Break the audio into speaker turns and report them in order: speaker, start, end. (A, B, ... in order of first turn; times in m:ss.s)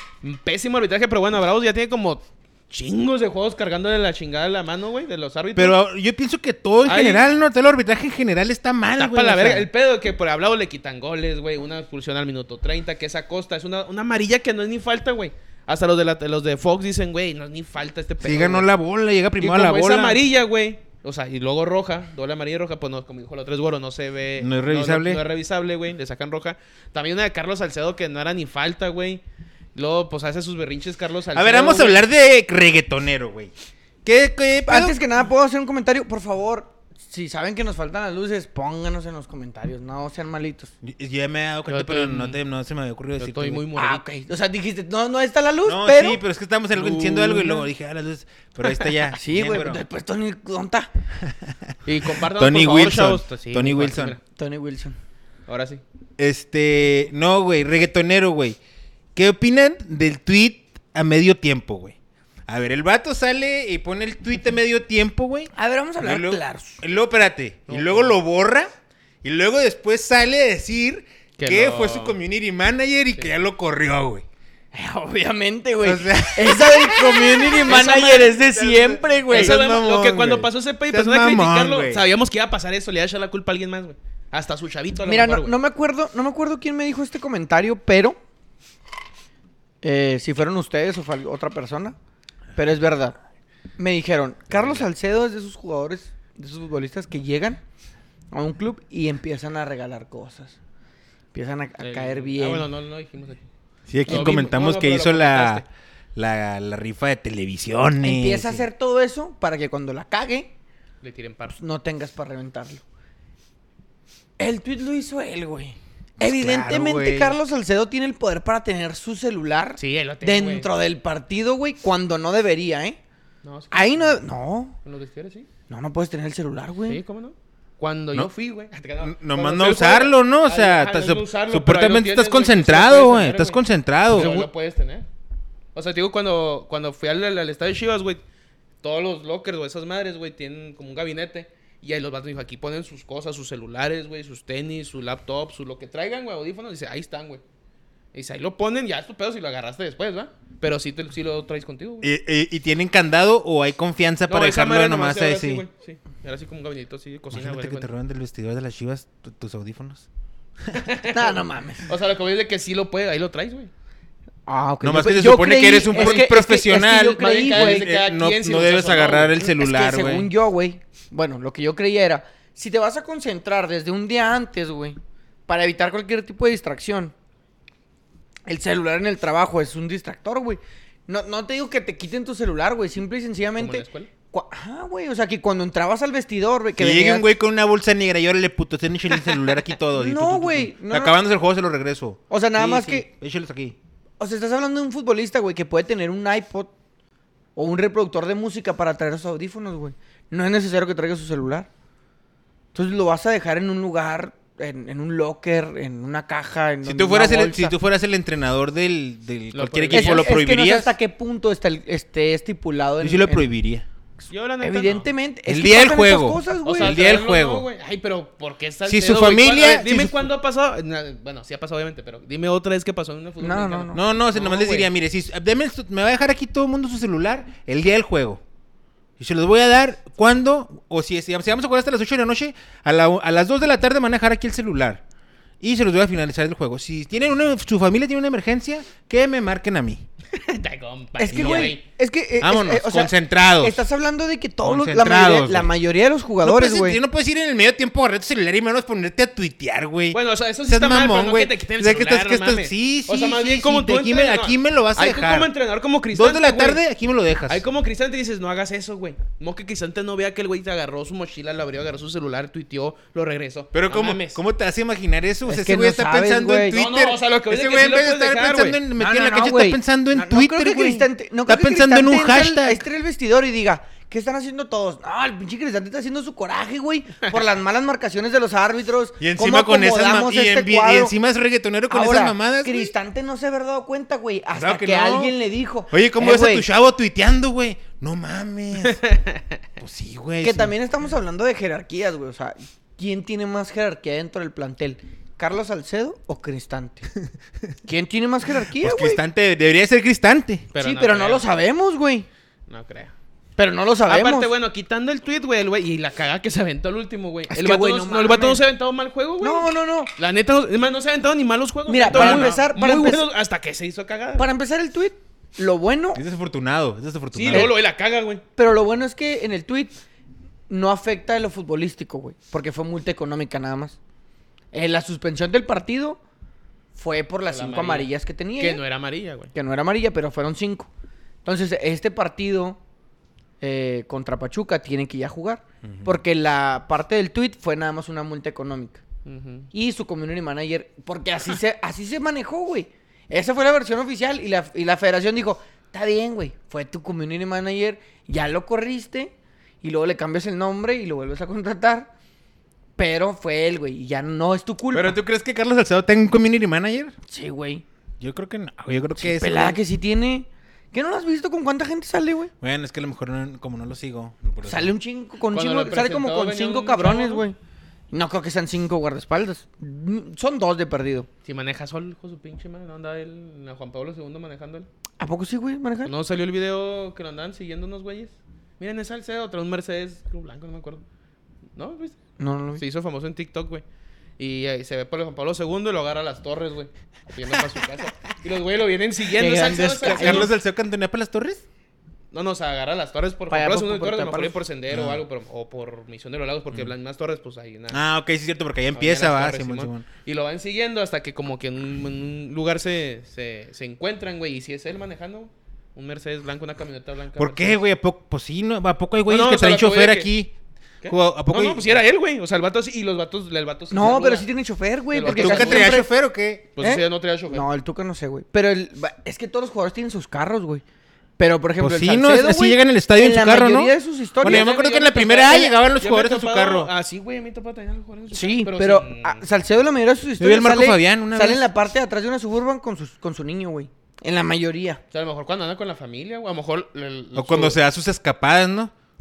0:00.2-0:05.8 A
0:05.6-0:09.7 B
0:06.8-0:07.2 A
0:09.0-0:18.7 A
0:18.2-0:20.2 B
0:19.4-0:29.2 A
0:24.4-0:25.2 B
0:29.7-0:32.0 A
0:31.3-0:33.5 B
0:34.0-0:35.0 B
0:34.6-0:40.7 C
0:40.8-0:43.6 B
0:41.7-0:42.4 A
0:43.2-0:44.0 A
0:43.7-0:46.2 C
0:45.6-0:49.8 B
0:46.8-0:47.6 A
0:49.1-0:50.9 C
0:51.2-0:54.2 B
0:51.8-0:54.2 A
0:54.4-0:55.0 C
0:55.5-0:55.8 A
0:56.2-0:58.6 B
0:59.1-1:02.0 B
1:02.5-1:08.7 B
1:05.5-1:06.8 C
1:07.7-1:08.2 A
1:09.2-1:14.2 B
1:11.4-1:12.2 A
1:14.7-1:19.6 C
1:15.8-1:22.0 B
1:17.6-1:18.4 A
1:19.3-1:25.6 A
1:25.1-1:28.2 C
1:29.8-1:32.0 C
1:32.6-1:33.2 C
1:33.8-1:37.6 C
1:34.5-1:34.8 A
1:38.3-1:40.6 C
1:41.3-1:42.7 C
1:41.8-1:43.4 A
1:43.9-1:45.6 B
1:44.0-1:45.6 A
1:44.1-1:44.4 C
1:46.1-1:48.6 B
1:48.0-1:50.5 C
1:51.0-1:51.6 A
1:51.5-1:52.8 C
1:54.4-2:03.0 C
1:56.2-1:57.4 B
1:59.8-2:00.7 A
2:03.4-2:04.2 A
2:03.7-2:04.8 C
2:04.8-2:05.5 A
2:05.7-2:07.0 C
2:06.9-2:15.1 A
2:09.0-2:14.3 B
2:14.1-2:14.5 C
2:15.7-2:18.2 A
2:18.8-2:27.4 A
2:28.1-2:32.1 A
2:32.0-2:35.6 B
2:34.3-2:37.9 A
2:37.3-2:40.1 B
2:40.7-2:43.7 A
2:41.1-2:41.8 C
2:44.5-2:47.9 C
2:44.8-2:50.3 B
2:45.9-2:46.2 A
2:47.2-2:49.4 A
2:49.4-2:57.1 C
2:58.5-3:07.3 C
3:03.6-3:04.1 A
3:06.8-3:13.8 B
3:09.9-3:11.2 C
3:12.3-3:13.1 C
3:14.2-3:16.7 C
3:17.6-3:21.7 C
3:22.7-3:27.8 C
3:26.8-3:30.9 B
3:29.5-3:30.4 A
3:29.9-3:33.5 C
3:33.0-3:33.8 B
3:34.3-3:35.1 A
3:34.6-3:37.0 C
3:35.5-3:37.7 B
3:36.6-3:44.9 A
3:38.8-3:40.2 B
3:43.4-3:44.0 C
3:43.9-3:48.4 B
3:49.2-3:55.0 B
3:55.6-4:00.0 B
4:00.3-4:01.8 A
4:01.2-4:07.0 C
4:01.2-4:01.8 B
4:02.4-4:03.8 B
4:04.6-4:05.8 B
4:06.4-4:15.5 B
4:10.1-4:16.8 A
4:16.1-4:17.6 B
4:17.5-4:24.4 A
4:23.7-4:32.8 B
4:25.4-4:26.8 C
4:26.7-4:28.8 A
4:29.0-4:41.2 C
4:39.2-4:42.9 B
4:41.9-4:46.6 C
4:44.5-4:45.3 B
4:45.9-4:49.0 B
4:48.8-4:49.4 A
4:49.8-4:50.7 B
4:50.4-4:57.1 C
4:57.8-4:59.2 C
4:58.7-5:00.7 B
5:00.7-5:01.4 A
5:00.8-5:02.3 C
5:02.7-5:03.1 A
5:03.6-5:04.5 C
5:04.1-5:14.5 A
5:07.5-5:08.6 C
5:09.4-5:10.1 C
5:11.9-5:13.2 C
5:12.1-5:12.6 B
5:14.4-5:16.2 C
5:16.1-5:17.7 B
5:17.3-5:18.4 A
5:17.5-5:17.8 C
5:18.6-5:20.0 C
5:20.7-5:24.0 C
5:24.7-5:26.2 C
5:26.9-5:28.8 C
5:27.5-5:29.5 A
5:29.5-5:30.9 C
5:31.4-5:32.8 C
5:33.6-5:39.0 C
5:39.2-5:39.7 A
5:39.7-5:52.1 C
5:53.0-5:55.2 C
5:54.9-5:57.2 B
5:57.3-5:57.8 C
5:58.2-5:59.8 B
5:59.2-6:02.5 C
6:02.6-6:04.9 B
6:04.6-6:07.6 C
6:05.5-6:07.4 A
6:08.1-6:11.3 C
6:11.4-6:14.9 A
6:15.2-6:16.1 C
6:16.0-6:21.0 A
6:21.8-6:22.2 A
6:22.4-6:22.8 C
6:22.8-6:23.8 A
6:24.4-6:30.5 A
6:29.4-6:30.5 C
6:29.9-6:31.6 B
6:32.3-6:38.0 A
6:33.5-6:34.6 C
6:34.9-6:35.2 B
6:37.9-6:40.0 B
6:38.9-6:47.8 A
6:47.3-6:50.5 B
6:49.3-6:50.3 A
6:51.0-6:54.5 A
6:51.1-6:51.9 B
6:53.9-6:56.1 C
6:55.1-6:56.0 A
6:55.2-6:56.7 B
6:56.8-6:57.6 A
6:56.8-7:00.8 C
7:01.4-7:04.7 C
7:01.8-7:06.9 B
7:04.4-7:09.4 A
7:08.3-7:15.0 C
7:10.4-7:11.7 B
7:15.1-7:17.8 A
7:17.3-7:18.9 B